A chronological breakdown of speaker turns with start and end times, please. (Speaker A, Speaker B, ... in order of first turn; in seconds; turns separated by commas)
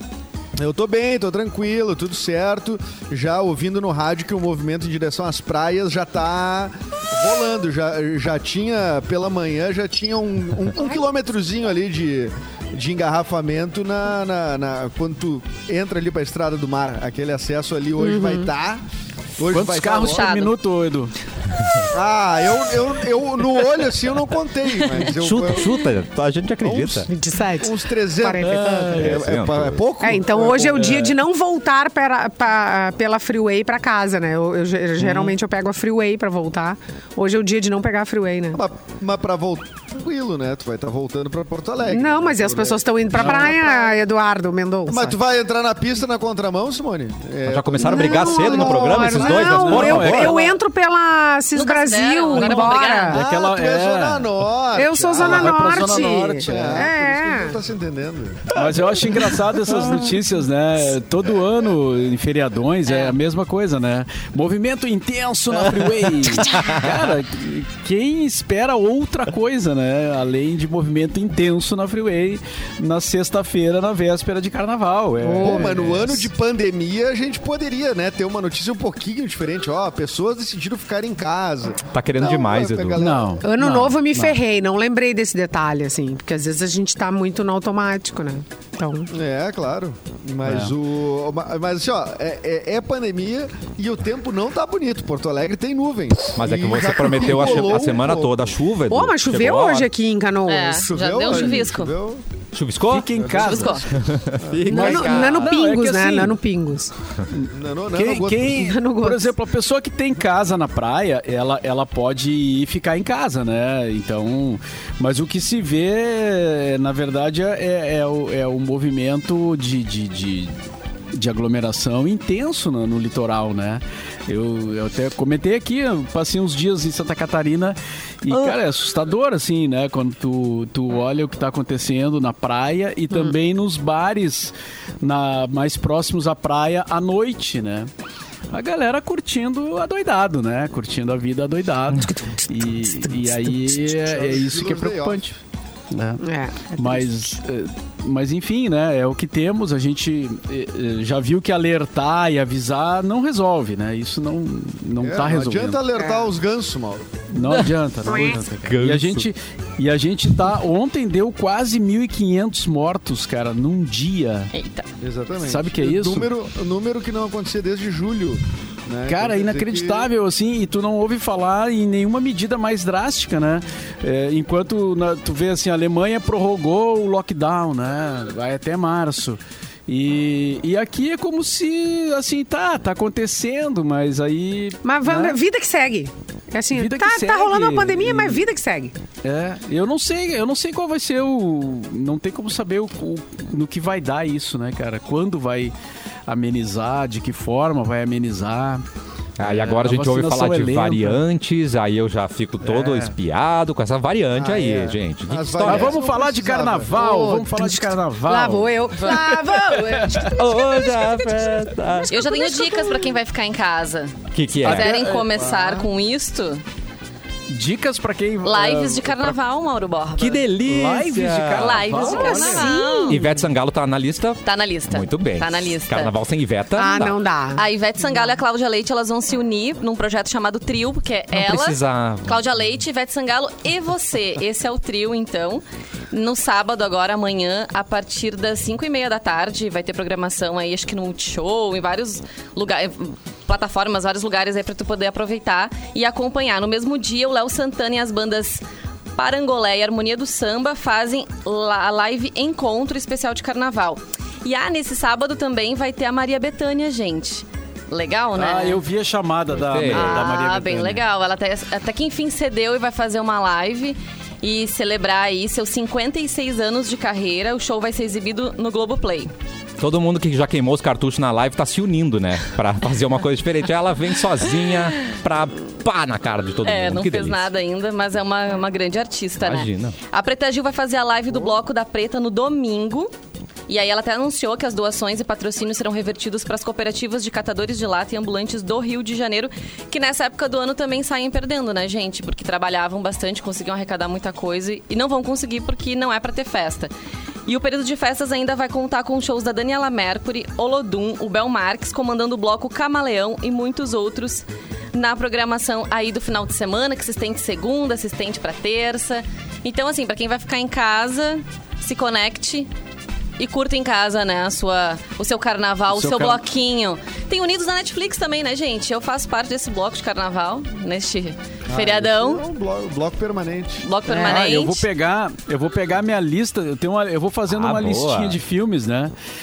Speaker A: 0.6-18.8, Speaker B: 18.0-18.5, Speaker A: 19.4-20.3, Speaker C: 19.4-21.1, Speaker D: 20.0-20.5, Speaker A: 21.9-25.8, Speaker E: 25.1-27.1, Speaker A: 26.6-31.1, Speaker B: 27.1-29.1, Speaker C: 28.4-29.1, Speaker E: 28.9-29.8, Speaker B: 30.0-38.6, Speaker C: 30.8-31.2, Speaker C: 35.0-35.4, Speaker A: 38.5-43.9, Speaker B: 41.9-45.2, Speaker C: 43.2-43.6, Speaker A: 44.9-50.1, Speaker E: 47.5-50.4, Speaker B: 47.8-53.2, Speaker C: 49.3-50.6, Speaker D: 51.5-53.2, Speaker C: 53.1-54.4, Speaker A: 53.1-58.9, Speaker B: 54.8-57.6, Speaker C: 55.2-56.8, Speaker C: 58.5-76.3, Speaker E: 59.7-60.1, Speaker D: 62.9-63.1, Speaker E: 65.8-66.9, Speaker B: 75.2-75.8, Speaker A: 75.4-83.4, Speaker E: 81.9-83.0, Speaker C: 83.0-84.4, Speaker B: 83.4-89.1, Speaker A: 89.1-98.4, Speaker C: 90.4-90.7, Speaker E: 96.4-99.9, Speaker C: 97.4-97.8, Speaker B: 98.9-101.5, Speaker D: 100.5-101.9, Speaker A: 100.9-102.2, Speaker E: 102.5-103.1, Speaker C: 102.9-103.8, Speaker A: 103.1-105.0, Speaker D: 103.4-103.9, Speaker E: 103.9-105.6, Speaker B: 104.7-106.9, Speaker C: 104.7-106.3, Speaker C: 107.3-120.5, Speaker A: 107.5-108.6, Speaker B: 108.6-109.4, Speaker C: 121.2-137.9, Speaker C: 138.5-145.4, Speaker A: 144.0-145.2, Speaker C: 145.9-146.2, Speaker B: 146.2-147.3, Speaker C: 146.8-155.8, Speaker A: 155.0-157.2, Speaker B: 155.9-156.3, Speaker C: 157.3-164.5, Speaker B: 158.1-158.4, Speaker E: 158.6-159.3, Speaker D: 164.5-164.9, Speaker A: 165.0-170.1, Speaker C: 165.4-166.3, Speaker C: 169.1-185.4, Speaker B: 184.8-188.9, Speaker C: 186.7-188.4, Speaker C: 189.2-195.7, Speaker C: 196.3-198.8, Speaker E: 199.4-206.0, Speaker C: 199.4-201.2, Speaker C: 202.6-203.1, Speaker A: 204.3-206.9, Speaker C: 205.7-210.3, Speaker B: 206.9-213.2, Speaker E: 210.3-212.1, Speaker D: 212.1-216.6, Speaker E: 214.3-214.9, Speaker A: 214.7-215.9, Speaker C: 217.5-219.3, Speaker D: 218.4-220.4, Speaker E: 220.2-222.1, Speaker C: 220.6-222.7, Speaker D: 221.6-223.2, Speaker B: 222.0-223.2, Speaker E: 223.1-227.2, Speaker D: 224.4-226.1, Speaker B: 226.8-227.6, Speaker D: 227.6-248.6, Speaker E: 231.3-232.4, Speaker D: 249.2-258.8, Speaker C: 258.4-261.0, Speaker E: 259.5-260.3, Speaker D: 259.8-269.3, Speaker E: 269.8-277.5, Speaker D: 276.6-283.1, Speaker E: 279.4-280.0, Speaker D: 283.7-296.9, Speaker D: 297.5-312.7, Speaker D: 313.4-322.4, Speaker C: 315.9-316.4, Speaker A: 321.7-323.9, Speaker D: 323.8-324.9, Speaker C: 324.1-329.1, Speaker E: 327.5-328.4